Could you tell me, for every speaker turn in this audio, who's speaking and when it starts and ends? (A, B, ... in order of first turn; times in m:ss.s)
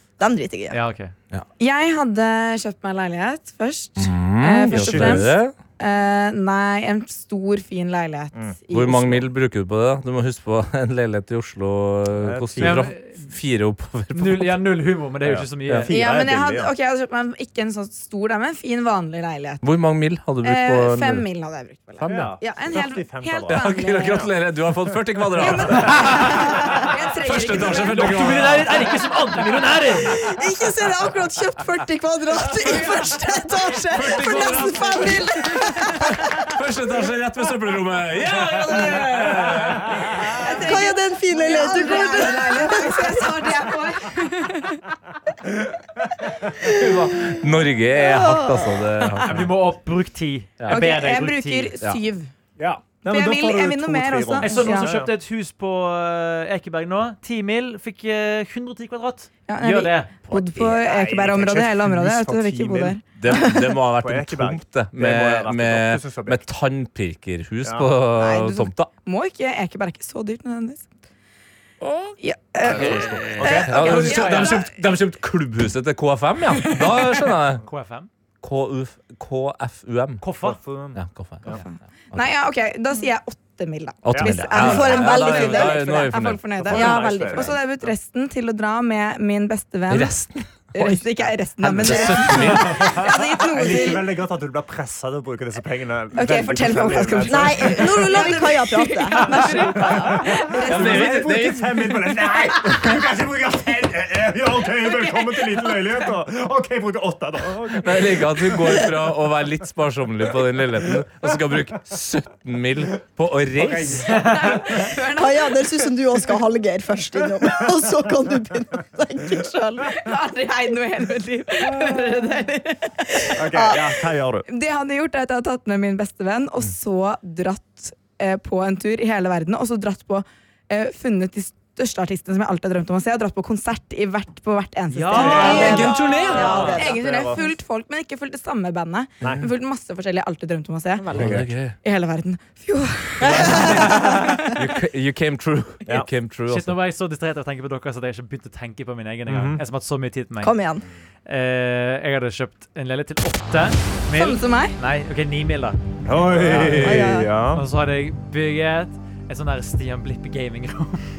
0:00.2-0:00.8 A
0:00.7-0:01.1 B
0:01.6-0:09.2 C
0:04.0-0:05.5 D
0:04.7-0:05.2 E
0:08.7-0:14.6 D
0:12.2-0:12.9 E
0:12.6-0:13.3 B
0:14.1-0:15.9 B
0:15.2-0:16.7 E
0:15.9-0:19.6 C
0:19.6-0:21.3 D
0:20.4-0:24.3 C
0:22.0-0:22.4 D
0:22.0-0:24.3 E
0:23.5-0:28.7 D
0:25.3-0:28.5 C
0:27.7-0:30.2 B
0:30.0-0:36.1 A
0:33.9-0:40.4 D
0:34.0-0:35.2 C
0:40.3-0:44.8 C
0:40.6-0:43.3 A
0:45.6-0:45.8 E
0:46.6-0:49.5 D
0:48.0-0:48.8 A
0:49.2-0:51.7 B
0:50.6-0:50.8 D
0:50.7-0:52.3 C
0:52.6-0:55.1 E
0:53.1-0:54.9 C
0:54.4-1:00.1 B
0:59.5-1:03.7 C
1:00.3-1:00.7 D
1:00.6-1:03.0 E
1:03.2-1:08.9 D
1:04.0-1:06.4 E
1:07.6-1:07.9 E
1:08.2-1:10.9 C
1:11.8-1:17.6 D
1:12.2-1:14.7 C
1:12.8-1:14.3 E
1:13.8-1:14.6 B
1:16.6-1:17.0 C
1:17.6-1:18.1 B
1:18.4-1:20.2 D
1:20.2-1:20.6 B
1:20.4-1:21.6 E
1:21.0-1:21.5 D
1:21.6-1:34.1 C
1:24.0-1:26.8 D
1:24.1-1:25.0 E
1:24.6-1:25.8 A
1:26.6-1:27.6 E
1:26.7-1:27.5 A
1:29.9-1:31.0 D
1:31.6-1:33.0 D
1:33.5-1:38.2 E
1:36.2-1:41.4 C
1:37.2-1:39.9 A
1:39.3-1:39.7 B
1:39.9-1:48.9 E
1:40.6-1:41.8 D
1:45.1-1:45.3 C
1:47.8-1:54.1 D
1:53.6-1:54.6 E
1:54.1-1:54.6 B
1:54.1-1:55.6 C
1:55.2-1:59.9 A
1:59.9-2:03.4 C
2:01.7-2:02.0 E
2:03.4-2:04.5 E
2:03.5-2:03.8 A
2:04.5-2:21.1 C
2:14.9-2:16.8 B
2:15.1-2:17.5 E
2:15.3-2:17.0 A
2:15.5-2:16.5 D
2:21.0-2:21.4 A
2:21.1-2:21.4 E
2:21.1-2:21.8 D
2:21.8-2:24.5 C
2:23.2-2:26.8 D
2:26.5-2:30.5 B
2:29.3-2:29.6 E
2:30.4-2:30.8 A
2:31.3-2:37.0 B
2:34.1-2:34.7 C
2:36.0-2:37.6 E
2:36.4-2:36.8 D
2:36.8-2:37.3 A
2:37.5-2:41.0 B